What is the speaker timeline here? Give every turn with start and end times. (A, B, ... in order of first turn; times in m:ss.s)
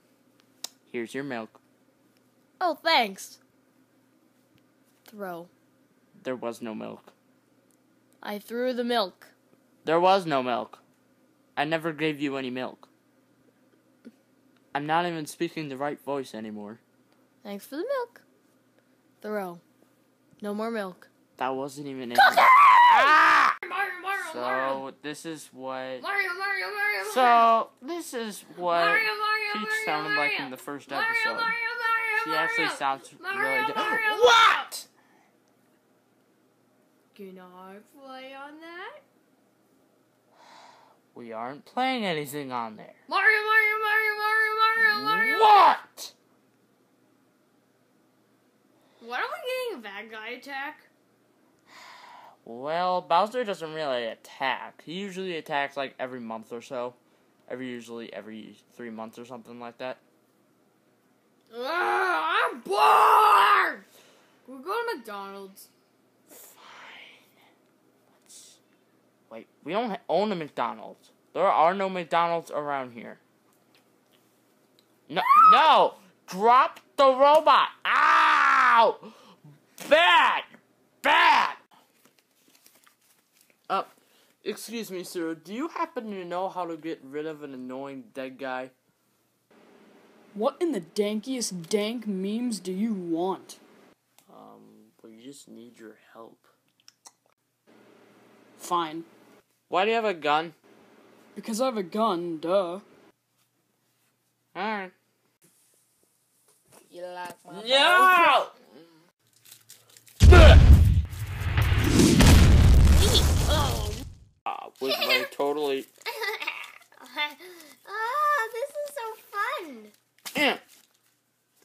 0:00.9-0:01.6 A
0:02.6-0:03.4 B
0:05.1-0:05.5 B
0:06.2-0:07.1 A
0:08.2-0:09.3 B
0:09.8-0:10.8 A
0:11.6-0:12.9 A
0:14.7-0:16.8 A
0:17.4-0:18.2 B
0:19.2-0:19.6 B
0:20.4-0:21.1 B
0:21.4-0:23.6 A
0:22.2-0:24.8 B
0:24.2-0:26.0 A
0:26.0-0:27.5 B
0:27.0-0:31.6 A
0:28.6-0:34.7 B
0:32.2-0:34.9 A
0:37.1-0:39.0 B
0:41.1-0:43.0 A
0:43.1-0:45.5 B
0:44.9-0:46.1 A
0:49.0-0:50.9 B
0:52.4-1:00.0 A
1:01.5-1:03.9 B
1:04.4-1:05.7 B
1:06.3-1:07.2 A
1:08.1-1:08.6 A
1:09.3-1:13.2 A
1:15.1-1:19.2 A
1:19.8-1:21.6 A
1:23.7-1:28.7 A
1:30.3-1:33.6 C
1:34.3-1:36.5 A
1:38.6-1:39.1 C
1:39.7-1:40.6 A
1:41.4-1:42.8 C
1:44.5-1:44.9 A
1:46.9-1:48.4 B
1:47.5-1:48.6 A
1:50.2-1:50.6 A
1:52.9-1:54.0 B
1:54.5-1:55.9 A
1:54.9-1:55.3 B
1:56.2-2:00.0 B
2:00.3-2:00.6 A